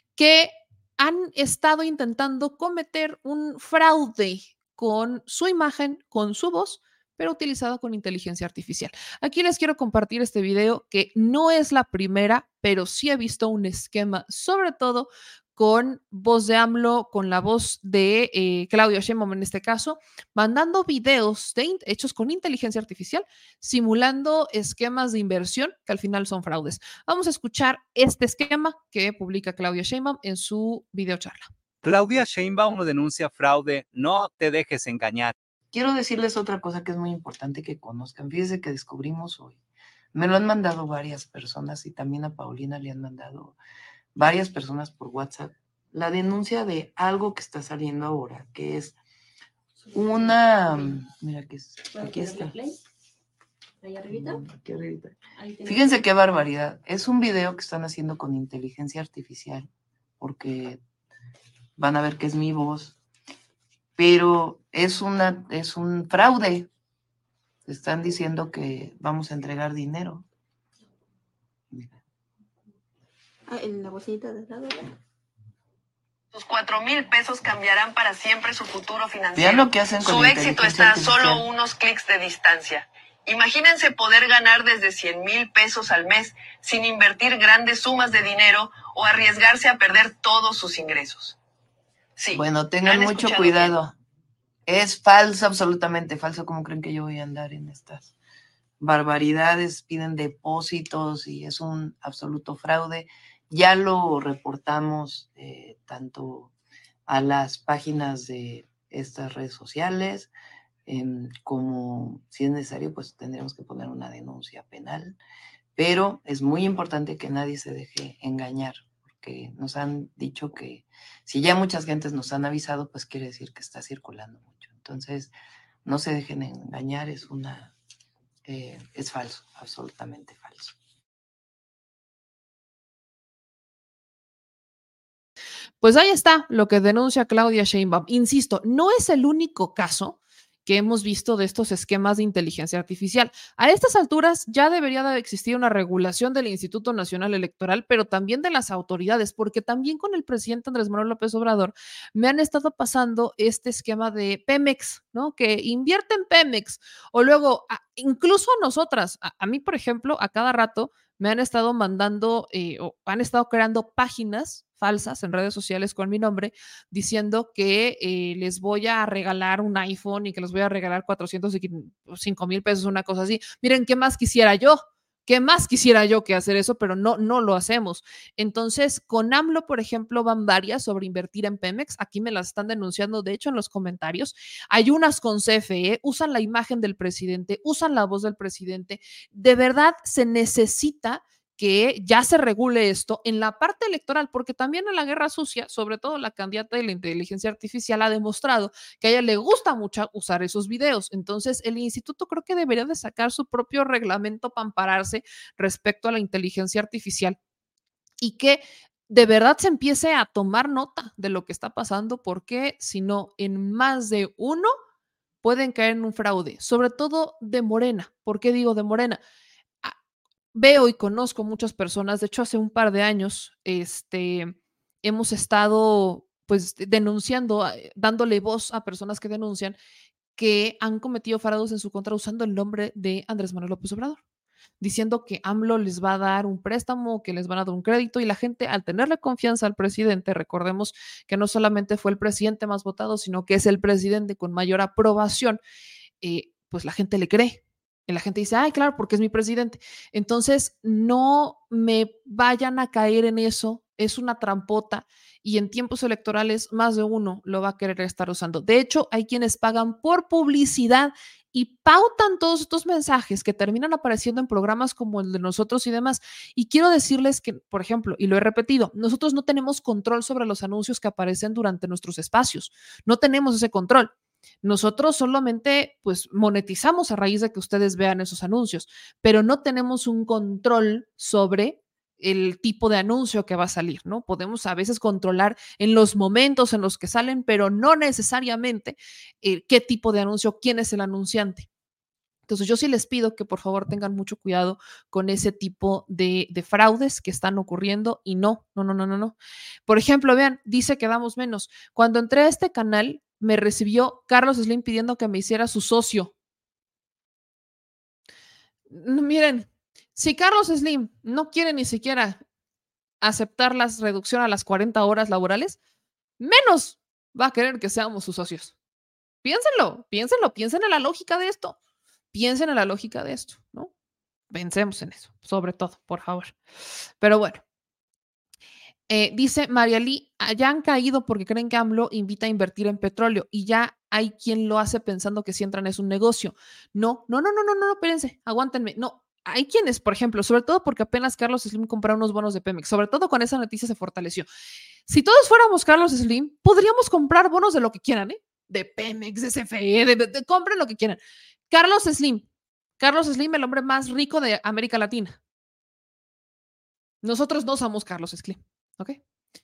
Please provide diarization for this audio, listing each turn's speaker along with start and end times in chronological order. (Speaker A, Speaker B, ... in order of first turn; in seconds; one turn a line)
Speaker A: 0.1-31.5
Speaker B: 31.8-35.3
Speaker C: 35.7-39.6
Speaker C: 40.1-43.6
Speaker C: 44.1-49.0
Speaker C: 49.9-52.6
Speaker D: 49.9-50.3
Speaker D: 51.9-52.8
Speaker D: 53.8-54.4
Speaker C: 54.1-60.8
Speaker D: 55.4-55.9
Speaker C: 61.8-63.0
Speaker C: 64.0-66.7
Speaker C: 67.7-70.3
Speaker C: 71.7-72.0
Speaker D: 73.5-74.9
Speaker E: 76.3-91.4
Speaker C: 79.3-81.5
Speaker E: 92.2-93.8
Speaker C: 92.3-93.9
Speaker C: 94.7-98.1
Speaker C: 98.8-106.5
Speaker C: 107.1-110.3
Speaker C: 110.8-115.2
Speaker C: 115.8-125.3
Speaker C: 125.8-127.7
Speaker C: 128.4-130.7
Speaker A: 135.8-207.4
Speaker A: 208.2-214.7
Speaker A: 215.4-219.2
Speaker A: 220.5-229.8
Speaker A: 230.4-234.2
Speaker A: 234.8-245.6
Speaker A: 246.2-274.1
Speaker A: 274.6-291.7
Speaker A: 292.5-299.4
Speaker A: 299.9-306.3
Speaker A: 308.9-312.4
Speaker A: 313.2-315.8
Speaker A: 316.4-318.7
Speaker A: 319.4-321.8
Speaker A: 322.3-323.9
Speaker A: 324.5-326.6
Speaker A: 327.2-327.6
Speaker A: 329.1-344.4
Speaker A: 345.1-351.2
Speaker A: 351.7-352.4
Speaker A: 353.0-355.4
Speaker A: 357.2-359.2